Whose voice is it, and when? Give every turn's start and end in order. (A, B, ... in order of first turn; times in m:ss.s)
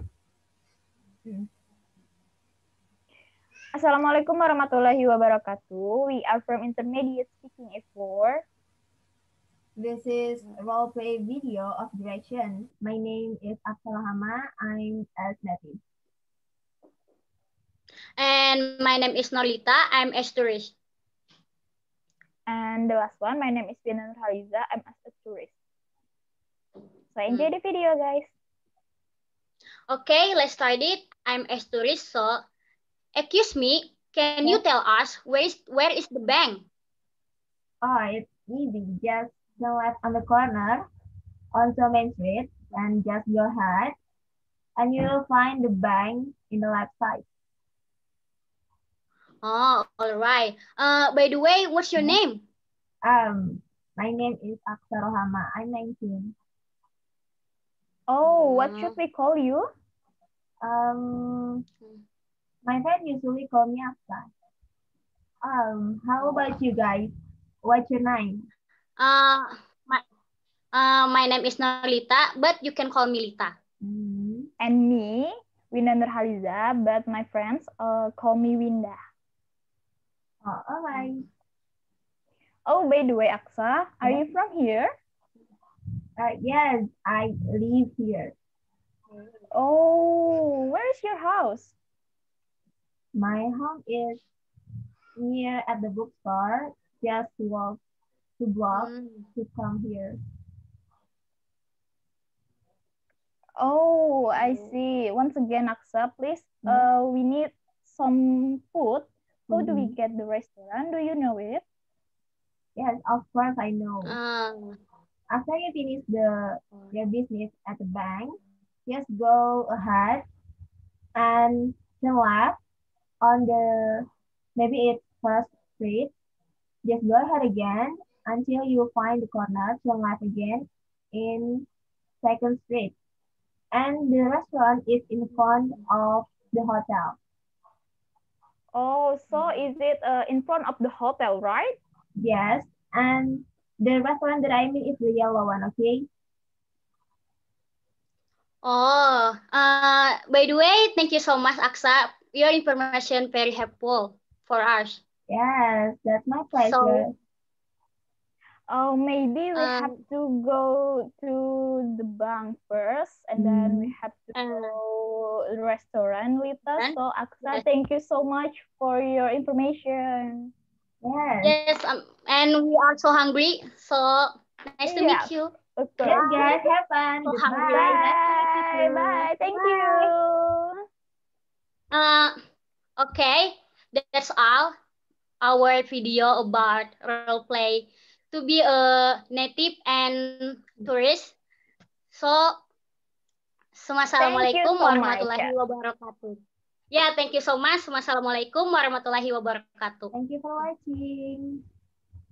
0:03.7-0:08.4 A
0:09.8-0:15.8 B
0:18.2-0:20.7 C
0:22.5-0:25.5 A
0:27.1-0:28.3 A
0:29.9-0:32.4 C
0:33.2-0:36.6 C
0:37.8-0:40.8 B
0:41.5-0:43.9 B
0:44.8-0:47.2 B
0:49.4-0:52.4 C
0:53.0-0:56.3 B
0:58.1-0:59.6 A
0:58.2-0:59.0 C
1:00.6-1:01.6 B
1:02.6-1:04.3 B
1:05.4-1:07.1 B
1:07.6-1:08.5 B
1:09.0-1:10.0 C
1:10.7-1:13.5 C
1:13.8-1:14.5 B
1:14.6-1:19.0 A
1:20.4-1:21.3 B
1:22.6-1:24.9 A
1:26.2-1:28.3 B
1:29.5-1:31.7 A
1:33.1-1:34.2 B
1:35.2-1:37.8 B
1:38.4-1:40.2 B
1:38.7-1:39.3 C
1:43.6-1:51.6 A
1:44.4-1:44.7 C
1:46.6-1:46.9 B
1:49.5-1:50.0 B
1:52.8-1:54.2 B
1:54.0-1:54.8 C
1:55.3-2:00.3 B
2:01.2-2:02.6 B
2:03.2-2:06.1 B
2:06.8-2:11.7 B
2:12.2-2:12.9 B
2:13.7-2:17.2 B
2:18.7-2:21.8 A
2:19.3-2:19.6 C
2:22.2-2:26.1 B
2:28.6-2:35.0 C
2:35.3-2:37.2 B
2:36.6-2:37.1 C
2:38.7-2:50.5 A
2:39.5-2:40.0 C
2:43.4-2:43.9 B
2:44.4-2:44.8 C
2:46.7-2:47.6 C
2:51.0-2:51.6 B
2:51.4-2:55.5 C
2:54.8-2:56.5 A
2:56.0-2:56.6 C
2:56.0-3:00.1 B
2:57.2-2:58.2 C
2:57.7-3:00.8 A
3:01.9-3:02.3 C
3:03.0-3:04.7 C
3:05.4-3:11.3 C
3:12.1-3:12.5 C
3:13.7-3:16.4 C
3:14.2-3:15.5 A
3:16.9-3:20.6 C
3:20.1-3:21.6 B